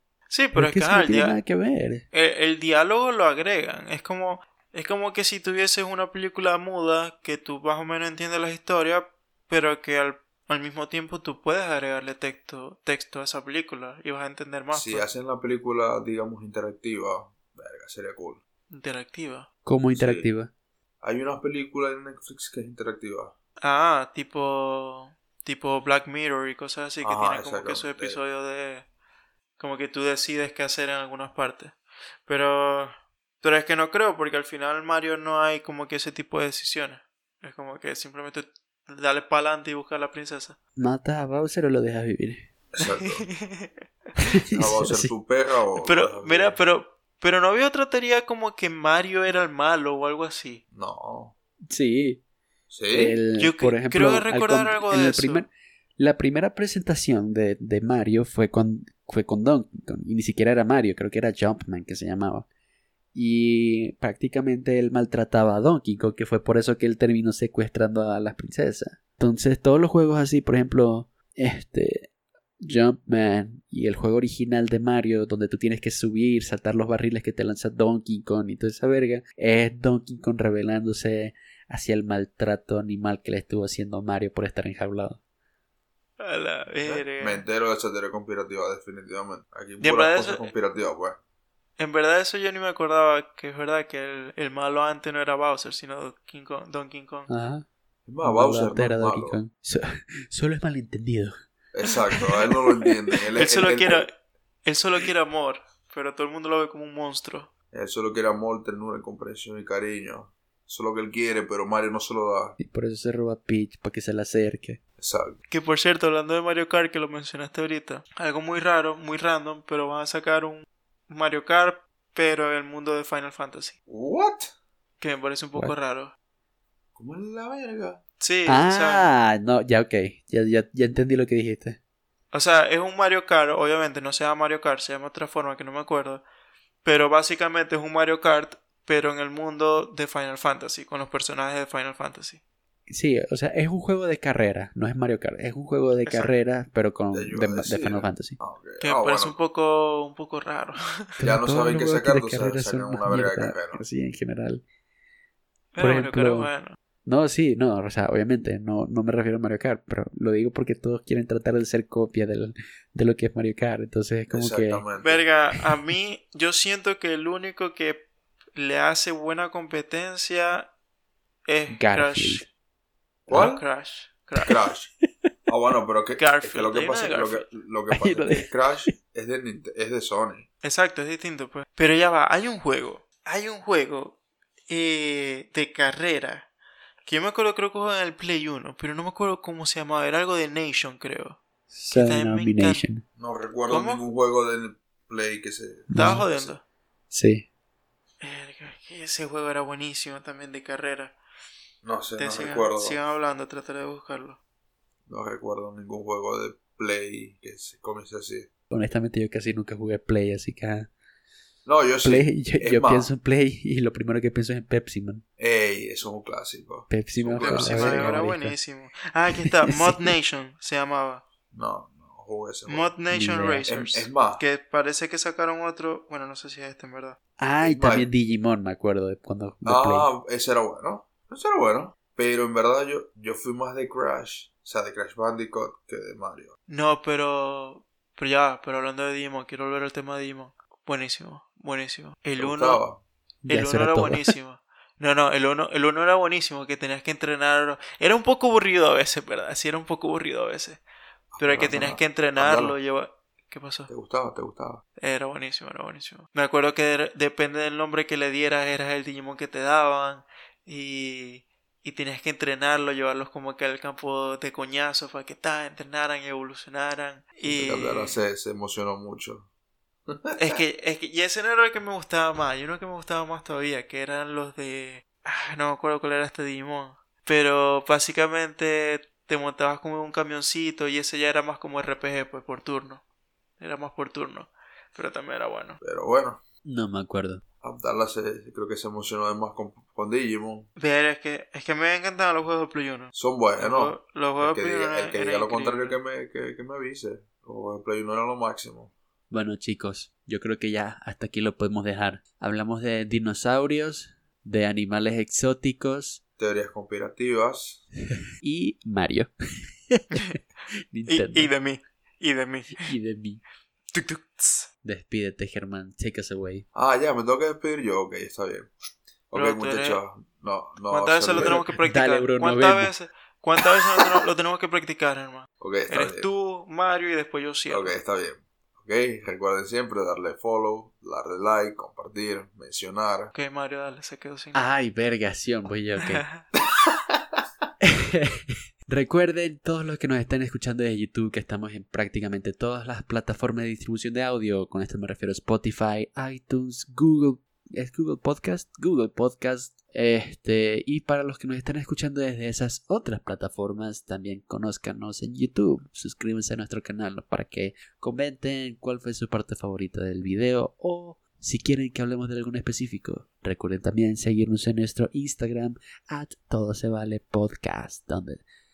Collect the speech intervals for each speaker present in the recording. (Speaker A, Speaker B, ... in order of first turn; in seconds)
Speaker A: 0.3-1.4, 2.1-15.1, 18.7-19.5, 23.6-28.9, 29.6-31.8, 32.3-40.6, 42.8-43.8, 45.8-50.6, 53.4-55.5, 86.2-87.5, 89.8-90.5, 91.8-97.3, 103.3-104.1, 104.7-107.5, 115.5-123.8, 125.0-126.1, 128.2-129.1, 132.3-136.2, 136.8-142.4, 146.1-146.3, 148.8-150.8, 155.7-156.8, 165.0-170.7, 171.5-172.5, 173.3-174.6, 176.2-177.5, 180.6-184.2, 184.7-186.5, 187.1-191.4, 191.9-192.8, 193.7-194.0, 195.9-196.6, 198.2-201.2, 202.2-204.4, 217.4-221.2, 222.7-227.2, 236.7-242.8, 243.5-250.8, 251.4-253.9, 255.0-268.2, 270.4-283.0, 283.6-285.8, 290.8-296.0, 311.1-312.9, 313.9-314.7, 319.3-320.0, 320.9-328.0, 333.3-334.7, 336.0-336.5
Speaker B: 0.6-2.0, 19.6-20.5, 40.8-42.5, 44.2-45.1, 51.7-52.2, 52.9-62.5, 63.1-72.1, 72.6-85.2, 97.3-97.7, 98.2-101.4, 112.6-114.8, 128.5-131.8, 142.9-148.4, 151.2-154.6, 155.8-156.5, 157.1-164.8, 171.7-172.5, 177.9-178.6, 191.7-193.0, 195.9-196.2, 197.1-197.5, 208.7-210.9, 212.0-215.2, 216.9-218.6, 219.4-220.1, 223.1-223.6, 227.4-230.1, 243.4-244.3, 286.6-287.4, 299.3-306.2, 308.4-309.3, 309.9-310.1, 310.9-311.5, 312.8-313.4, 314.8-316.7, 321.4-322.9, 334.6-336.2, 337.8-368.4
Speaker C: 14.7-18.4, 19.9-20.3, 21.0-23.3, 27.0-28.2, 42.7-43.3, 44.5-46.6, 50.7-51.3, 52.7-53.2, 86.8-91.2, 98.1-99.4, 101.7-104.1, 107.7-112.6, 115.0-115.4, 123.9-124.5, 127.0-128.0, 147.1-149.4, 151.2-153.8, 164.3-165.3, 173.3-173.6, 174.5-174.9, 175.5-180.5, 193.2-196.5, 201.8-203.0, 205.1-208.5, 211.7-213.1, 215.4-218.2, 221.5-222.9, 223.7-224.4, 227.6-228.1, 229.7-236.5, 242.4-243.0, 251.3-252.8, 253.9-254.8, 267.5-269.5, 270.1-270.6, 285.8-286.4, 287.6-290.7, 293.1-298.9, 306.4-307.8, 316.7-318.7, 319.3-321.6, 325.6-326.3, 327.7-333.3, 336.6-337.2